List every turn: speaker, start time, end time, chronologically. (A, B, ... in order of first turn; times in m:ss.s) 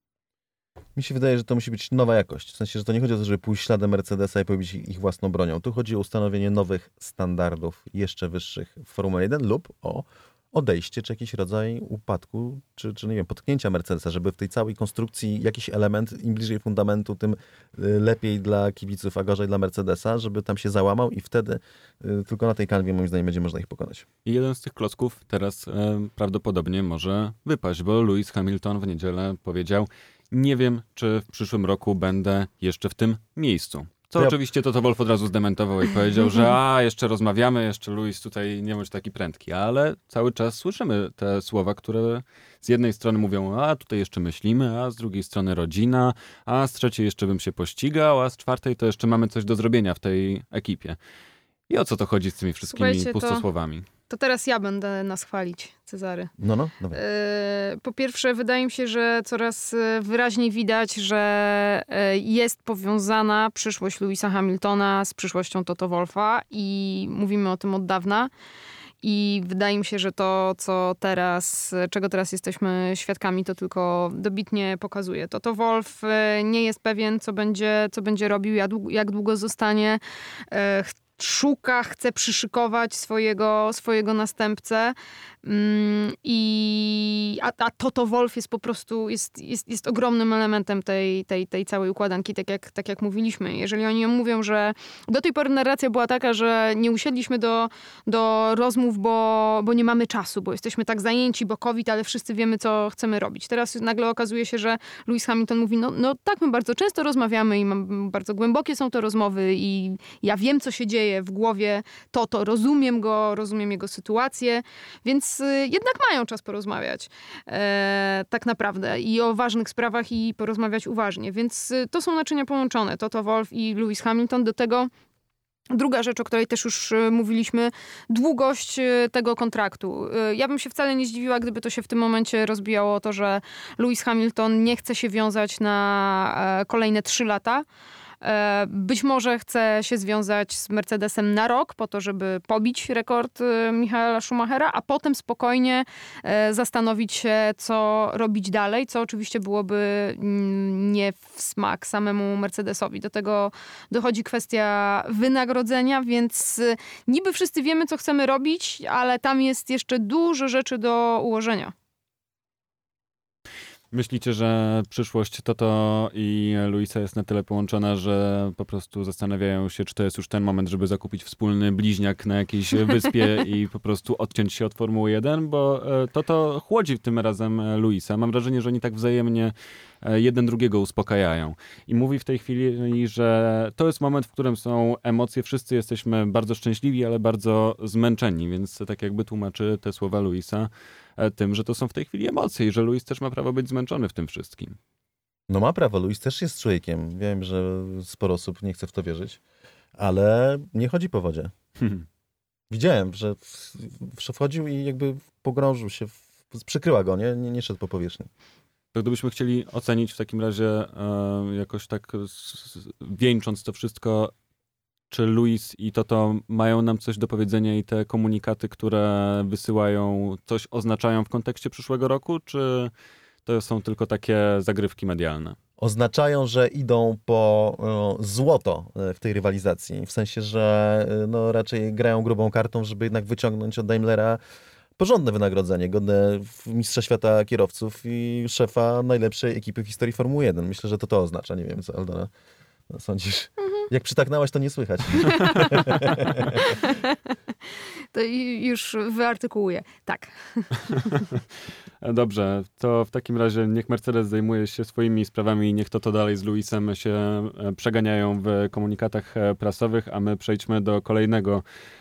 0:01.0-0:24.1 A
0:24.2-0:51.0 B
0:51.7-0:53.9 B
0:52.7-0:53.4 C
0:54.1-0:56.3 C
0:56.4-0:57.0 A
0:56.9-1:08.3 C
1:09.0-1:20.0 C
1:20.5-2:04.9 C
2:05.7-2:17.6 C
2:18.2-2:41.7 C
2:43.9-3:14.8 B
3:15.5-3:19.4 A
3:20.0-3:21.5 A
3:21.8-3:22.0 B
3:22.7-3:28.3 A
3:29.0-3:34.3 B
3:35.1-3:42.9 B
3:43.4-3:45.6 B
3:45.8-3:54.4 A
3:55.0-4:02.3 A
4:02.9-4:06.6 A
4:05.2-4:07.2 C
4:08.1-4:11.1 C
4:11.1-4:11.4 B
4:12.0-4:21.6 B